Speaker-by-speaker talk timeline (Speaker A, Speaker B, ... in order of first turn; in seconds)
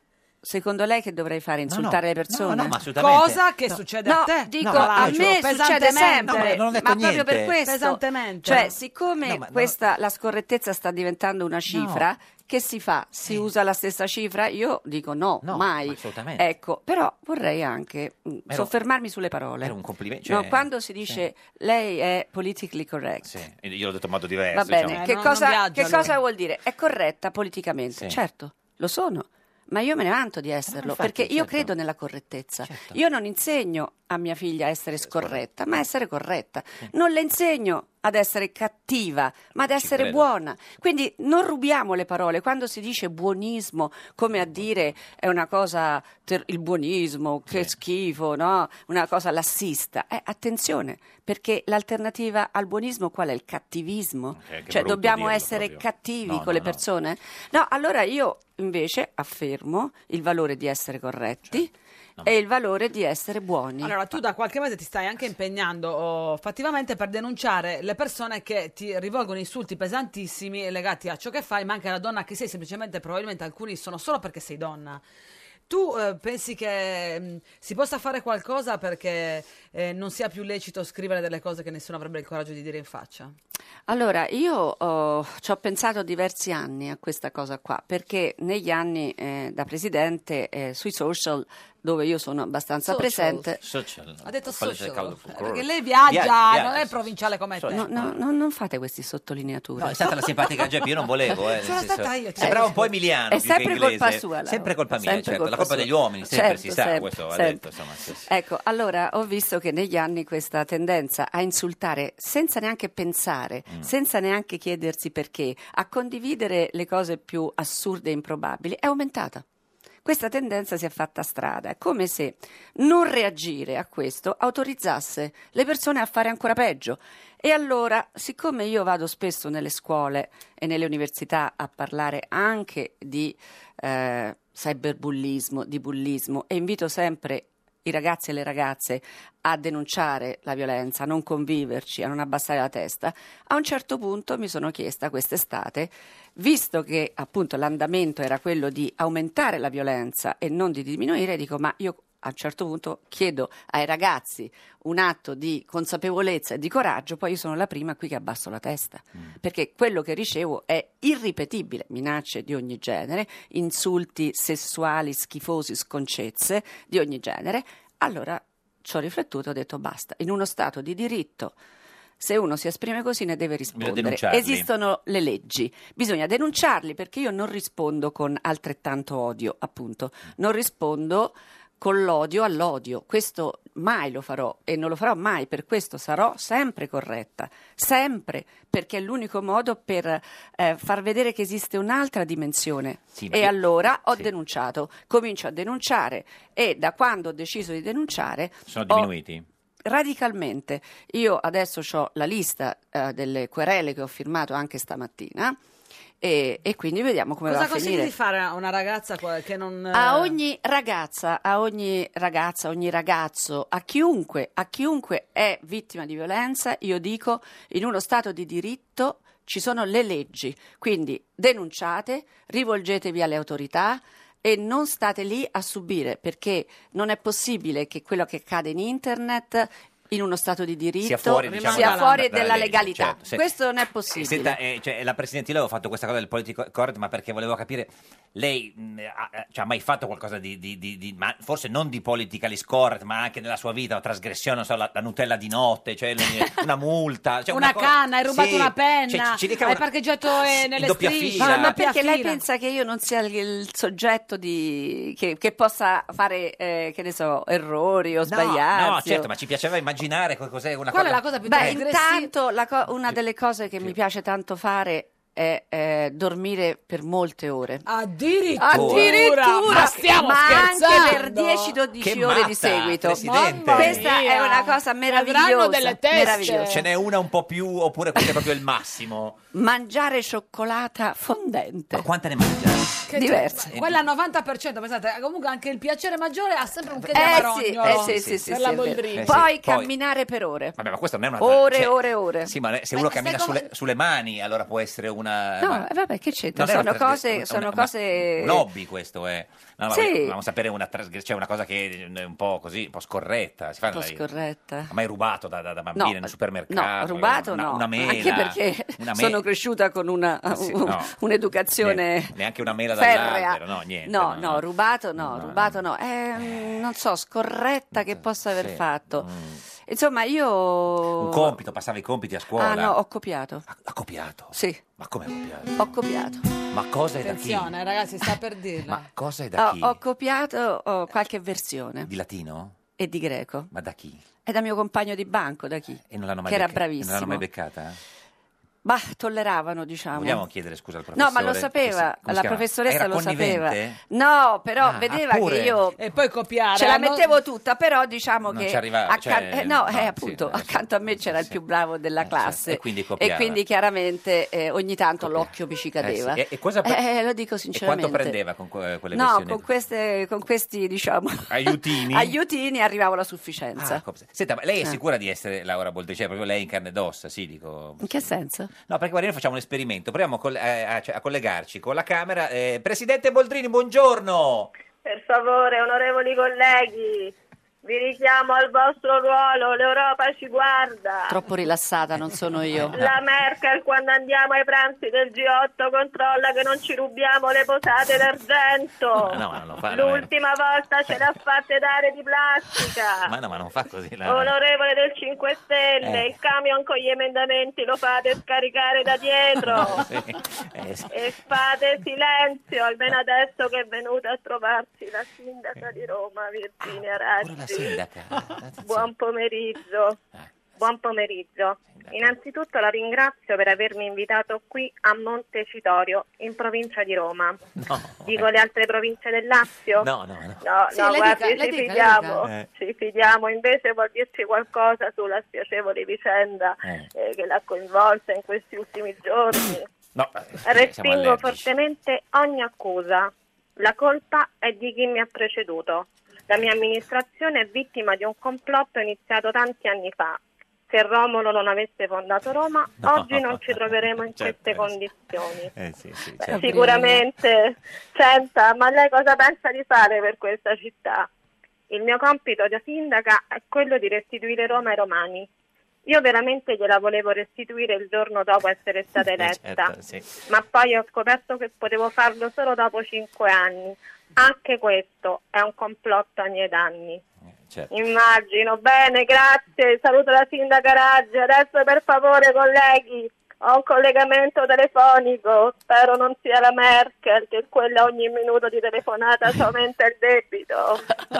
Speaker A: 0.4-2.8, 4.0-19.8, 20.3-23.3, 24.5-61.7, 62.2-64.0, 83.9-93.6, 97.7-100.0, 102.4-102.8, 103.3-107.6, 108.3-119.4, 120.0-171.6, 172.2-199.1, 199.8-205.6, 206.2-208.1, 209.9-234.6, 251.4-259.3, 261.5-267.9, 268.6-276.8, 279.5-282.1, 283.1-283.6, 287.1-290.8, 291.4-292.5, 295.6-298.7, 299.9-300.4, 303.9-304.9, 306.0-312.3, 312.9-319.3, 319.9-321.6, 322.6-323.6, 324.5-324.8, 325.8-326.4, 329.6-332.1, 333.0-333.7, 334.4-337.4, 338.8-340.4, 341.2-346.0, 346.8-358.4, 359.1-364.0, 368.0-368.7, 381.3-383.0, 446.5-447.3
Speaker B: 1.7-3.8, 4.6-5.3, 6.3-7.6, 9.2-9.8, 11.7-12.1, 15.4-16.4, 19.6-21.2, 23.2-25.0, 27.9-28.2, 30.7-31.7, 32.6-33.0, 35.0-35.8, 39.6-40.3, 47.5-47.7, 54.4-56.8, 93.6-97.0, 97.6-98.2, 99.8-108.3, 173.7-174.7, 193.2-193.6, 198.7-199.5, 231.0-233.4, 234.1-251.8, 258.2-261.8, 268.7-269.2, 272.0-274.1, 276.5-279.4, 281.9-284.0, 287.0-289.9, 290.8-295.9, 296.5-304.2, 304.9-309.4, 310.5-311.1, 311.8-314.6, 315.2-315.8, 316.4-316.8, 317.9-319.6, 321.2-323.0, 323.7-325.9, 326.7-327.7, 328.9-330.0, 332.1-332.8, 333.7-334.2, 336.1-338.0, 340.1-344.0, 344.8-345.8, 348.5-351.6, 352.2-353.6, 355.2-357.0, 357.7-359.7, 361.5-362.4, 363.8-368.3, 368.8-374.7, 382.8-383.1, 389.2-390.3, 393.2-394.6, 396.0-396.3, 399.7-401.4, 406.8-409.1, 411.9-412.3, 417.8-418.5, 420.0-420.6, 426.8-427.1, 430.1-431.7, 443.0-444.9, 445.8-446.9, 459.4-460.3
Speaker C: 3.0-6.6, 7.6-8.7, 24.9-26.1, 63.8-75.0, 75.7-83.3, 92.8-93.5, 94.2-97.9, 101.6-102.9, 207.5-210.4, 231.4-232.2, 247.5-252.4, 260.9-262.3, 267.9-271.8, 273.1-276.8, 283.1-289.5, 292.9-293.7, 327.2-329.1, 346.0-347.2, 420.9-422.4
Speaker D: 375.1-377.3, 377.8-381.4, 382.9-389.4, 389.9-393.3, 394.3-400.1, 401.1-408.0, 408.8-410.2, 410.8-417.6, 418.3-420.1, 420.6-429.9, 430.6-445.7, 446.4-451.3, 451.9-455.5, 456.1-459.9, 460.5-467.2, 467.9-481.0